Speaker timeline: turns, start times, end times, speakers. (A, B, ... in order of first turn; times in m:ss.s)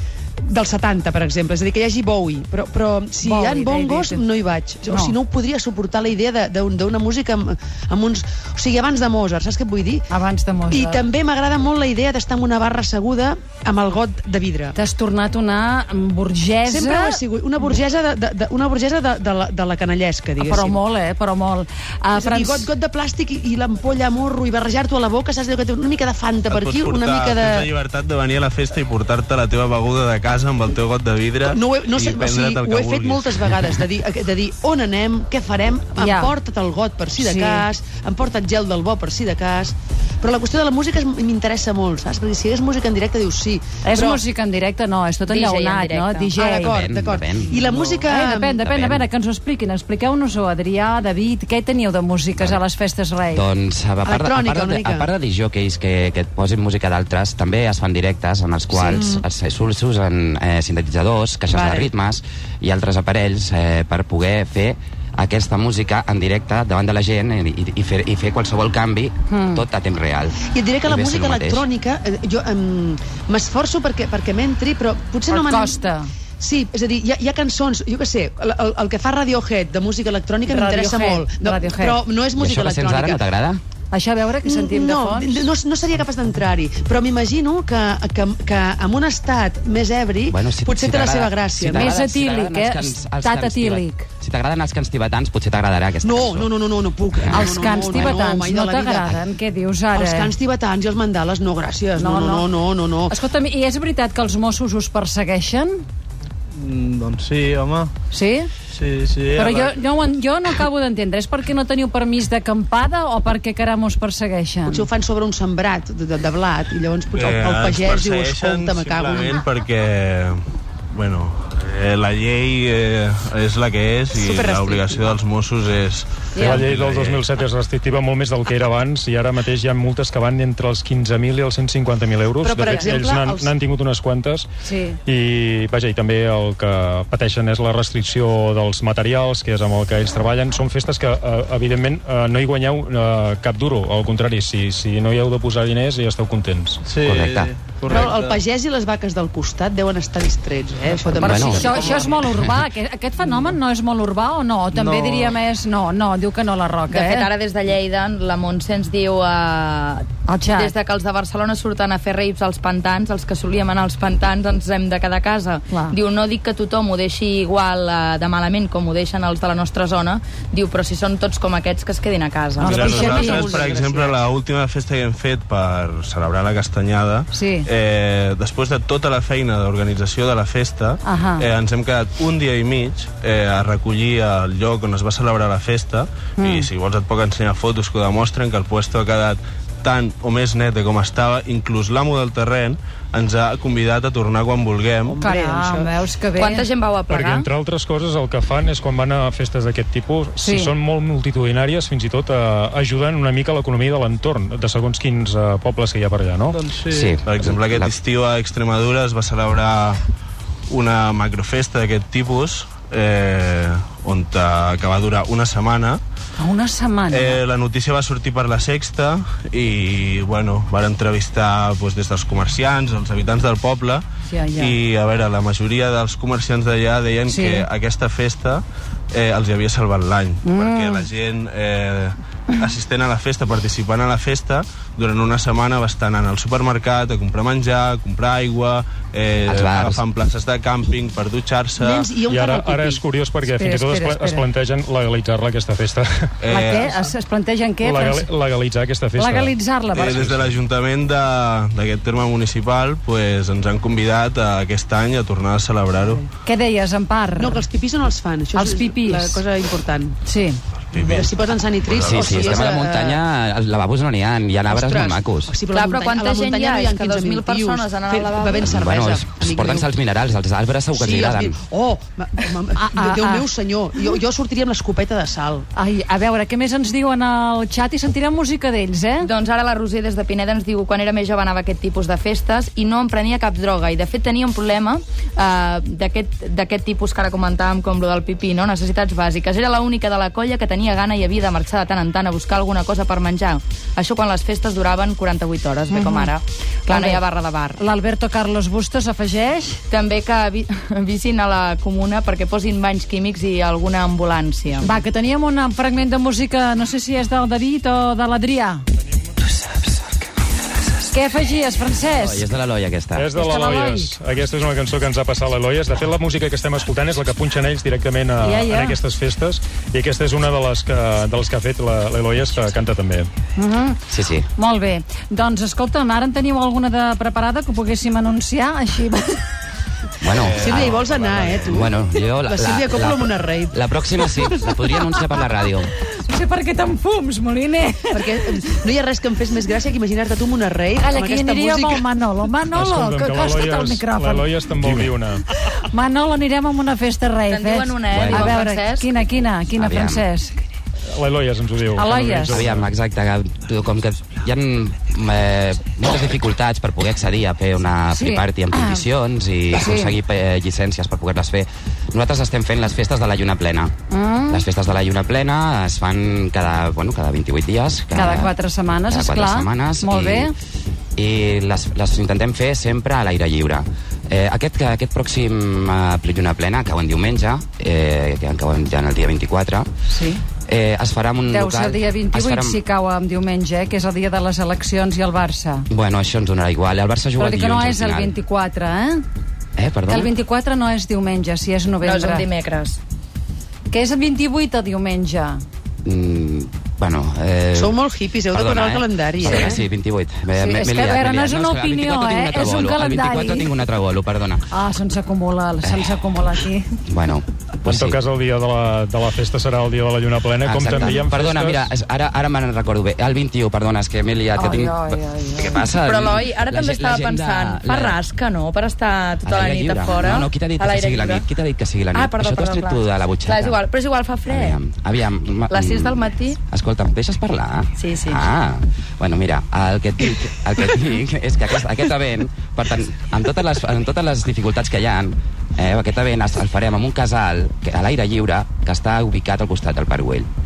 0:00.4-0:10.1 A
0:03.2-0:04.2 B
0:04.9-0:05.1 B
0:10.1-0:11.0 B
0:10.7-0:14.8 A
0:14.8-0:17.2 B
0:16.6-0:20.8 A
0:20.4-0:22.7 B
0:22.1-0:27.7 A
0:26.5-0:33.6 C
0:31.4-0:44.2 A
0:36.0-0:36.3 B
0:37.2-0:37.6 B
0:43.8-0:46.8 B
0:45.3-0:46.3 D
0:46.3-0:48.6 A
0:46.6-0:47.5 E
0:48.0-0:53.4 B
0:48.6-0:49.1 E
0:53.3-1:11.6 E
0:54.0-0:55.1 A
0:58.7-0:59.2 A
1:01.5-1:01.9 A
1:09.3-1:09.6 B
1:10.4-1:15.8 A
1:15.3-1:16.1 B
1:16.4-1:23.2 A
1:20.5-1:22.0 B
1:22.4-1:23.6 E
1:23.9-1:25.4 B
1:24.4-1:32.0 A
1:30.3-1:36.5 E
1:31.7-1:34.1 B
1:36.0-1:39.2 A
1:37.2-1:38.2 E
1:37.3-1:40.3 B
1:39.9-1:43.1 A
1:42.0-1:42.5 B
1:43.1-1:45.8 B
1:46.5-1:47.9 F
1:48.1-1:48.5 B
1:48.7-1:49.8 F
1:49.4-1:54.9 B
1:54.7-1:59.4 A
1:57.1-2:00.4 C
2:00.9-2:07.3 C
2:04.1-2:05.2 A
2:06.3-2:06.6 B
2:06.4-2:14.5 G
2:12.4-2:13.5 A
2:14.6-2:15.0 B
2:15.0-2:26.8 G
2:26.8-2:28.4 F
2:27.0-2:27.5 E
2:27.9-2:32.2 A
2:31.1-2:31.8 E
2:31.2-2:37.3 B
2:34.7-2:35.4 F
2:36.9-2:52.9 D
2:40.3-2:40.7 B
2:45.7-2:46.0 B
2:52.6-2:53.5 B
2:52.6-2:54.2 A
2:52.7-3:15.2 C
2:57.3-2:57.7 B
3:01.0-3:01.5 B
3:06.4-3:06.7 B
3:15.0-3:15.9 A
3:15.2-3:16.6 B
3:16.4-3:17.5 D
3:17.1-3:26.6 G
3:20.4-3:20.7 B
3:26.5-3:27.2 F
3:26.9-3:27.9 E
3:27.2-3:30.0 C
3:30.7-3:36.0 C
3:36.4-3:37.4 B
3:37.1-3:44.0 C
3:44.3-3:44.8 B
3:44.6-4:02.1 C
3:47.3-3:47.7 B
3:50.4-3:51.1 B
3:59.5-4:00.0 E
4:01.8-4:03.0 A
4:02.2-4:06.3 G
4:03.4-4:04.4 B
4:06.4-4:07.1 C
4:06.5-4:08.3 B
4:07.8-4:09.5 G
4:09.2-4:10.2 B
4:09.9-4:16.2 C
4:10.1-4:10.6 G
4:16.0-4:16.2 A
4:16.4-4:17.6 B
4:17.4-4:20.2 A
4:18.5-4:19.4 B
4:20.2-4:20.6 B
4:20.9-4:22.7 C
4:21.0-4:23.2 A
4:22.0-4:25.5 E
4:24.7-4:29.9 A
4:25.7-4:28.7 D
4:28.6-4:31.5 E
4:31.0-4:35.6 A
4:32.8-4:33.5 B
4:35.8-4:39.3 B
4:39.2-4:57.8 D
4:55.9-4:56.3 B
4:56.9-4:57.2 B
4:57.8-4:59.8 B
4:59.9-5:04.9 D
5:04.8-5:08.8 B
5:11.1-5:12.4 B
5:12.2-5:13.3 E
5:13.2-5:23.3 G
5:13.4-5:14.1 B
5:18.4-5:19.0 B
5:23.6-5:29.4 B
5:24.1-5:24.5 E
5:30.2-5:31.0 E
5:30.4-5:31.9 C
5:30.6-5:33.8 A
5:31.6-5:35.9 E
5:34.7-5:35.2 B
5:36.1-5:38.2 B
5:38.1-5:42.0 A
5:41.0-5:50.6 B
5:42.7-5:45.4 G
5:47.5-5:49.0 D
5:48.1-5:48.6 E
5:49.8-5:50.3 E
5:51.1-5:52.9 G
5:52.0-5:52.6 B
5:52.5-6:03.9 E
5:58.1-5:59.0 B
5:59.7-6:00.2 B
6:04.1-6:04.6 B
6:04.5-6:08.5 E
6:08.1-6:10.5 B
6:09.1-6:10.5 E
6:11.2-6:19.9 E
6:20.1-6:20.4 B
6:20.7-6:22.8 E
6:21.5-6:25.9 B
6:25.9-6:28.4 E
6:27.4-6:29.2 B
6:29.8-6:30.3 E
6:30.1-6:32.5 B
6:32.0-6:33.0 D
6:33.9-6:35.6 B
6:36.0-6:38.0 E
6:37.8-6:39.8 A
6:38.5-6:44.6 E
6:40.6-6:43.7 B
6:44.7-6:46.9 B
6:45.8-6:46.1 E
6:47.1-6:48.2 E
6:47.9-6:51.8 G
6:50.6-6:58.2 E
6:54.6-6:55.9 B
6:56.0-7:01.5 D
6:59.4-7:03.8 E
7:02.1-7:04.8 D
7:04.5-7:20.5 E
7:05.7-7:06.6 D
7:08.0-7:08.4 D